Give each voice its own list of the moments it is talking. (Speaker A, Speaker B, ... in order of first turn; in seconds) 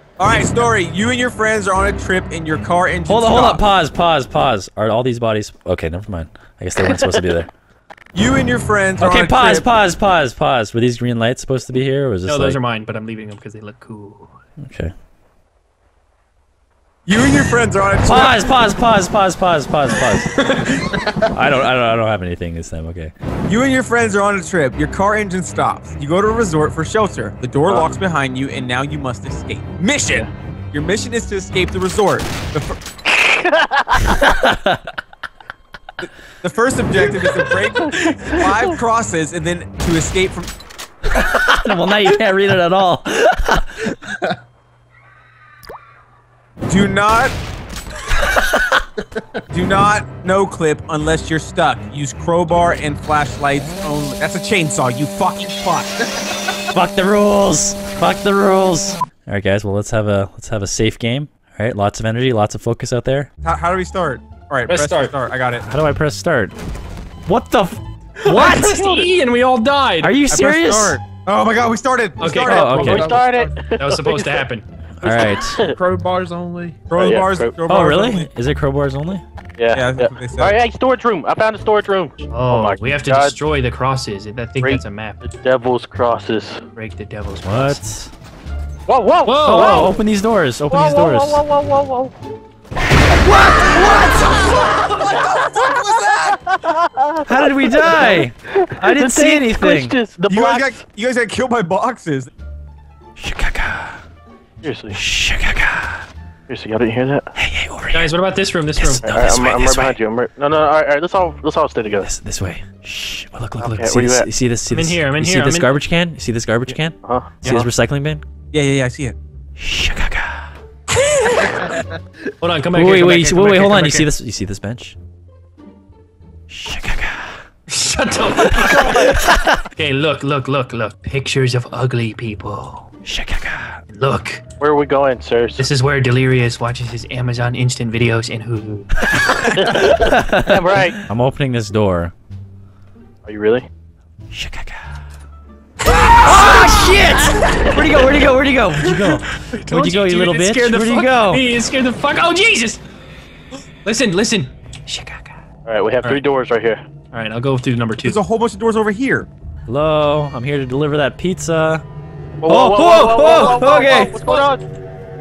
Speaker A: 0.2-3.6, 8.1-9.7, 17.1-18.4, 23.4-32.8, 36.0-40.5, 46.6-47.3, 49.5-56.0, 63.4-65.7, 70.3-72.8, 76.9-78.3, 79.7-80.6, 94.9-96.4, 100.3-102.3, 118.5-119.2, 158.0-159.3
Speaker B: 3.1-7.5, 9.0-12.6, 14.6-14.9, 18.0-23.1, 34.1-34.8, 41.1-44.0, 56.5-63.3, 65.6-66.5, 67.3-68.8, 70.0-71.0, 72.4-73.2, 75.0-75.6, 77.7-79.2, 87.4-88.1, 89.4-91.4, 93.1-94.5, 97.2-100.0, 103.2-104.0, 104.9-106.0, 107.3-108.1, 108.8-110.0, 112.0-118.2, 119.6-120.5, 122.7-125.0, 126.5-127.4, 128.3-129.6, 133.0-133.8, 139.1-142.1, 144.3-144.8, 146.1-151.4, 159.7-161.8, 162.5-164.2
Speaker C: 6.8-7.2, 27.7-28.0, 33.1-34.4, 38.0-38.5, 68.5-69.1, 72.4-74.4, 75.3-75.8, 77.0-77.5, 79.6-83.4, 84.6-86.6, 88.9-90.0, 90.7-92.1, 96.3-97.2, 97.8-100.8, 104.6-105.0, 106.5-107.3, 109.0-112.1, 113.6-114.3, 117.0-117.3, 128.5-129.1, 134.6-135.7, 139.5-141.0, 143.2-143.7, 155.7-156.8, 162.4-164.6
Speaker D: 12.2-14.3, 64.7-65.1, 68.2-70.3, 72.2-73.0, 73.7-75.2, 82.3-85.2, 86.8-87.8, 89.3-90.0, 107.9-109.0, 114.7-115.8, 121.2-121.7, 122.4-124.1, 127.7-129.1, 129.7-132.9, 133.9-134.4, 135.6-139.1, 146.0-146.9, 148.8-152.8, 153.8-155.3, 157.1-158.2, 163.2-164.4
Speaker E: 73.0-73.7, 75.6-76.8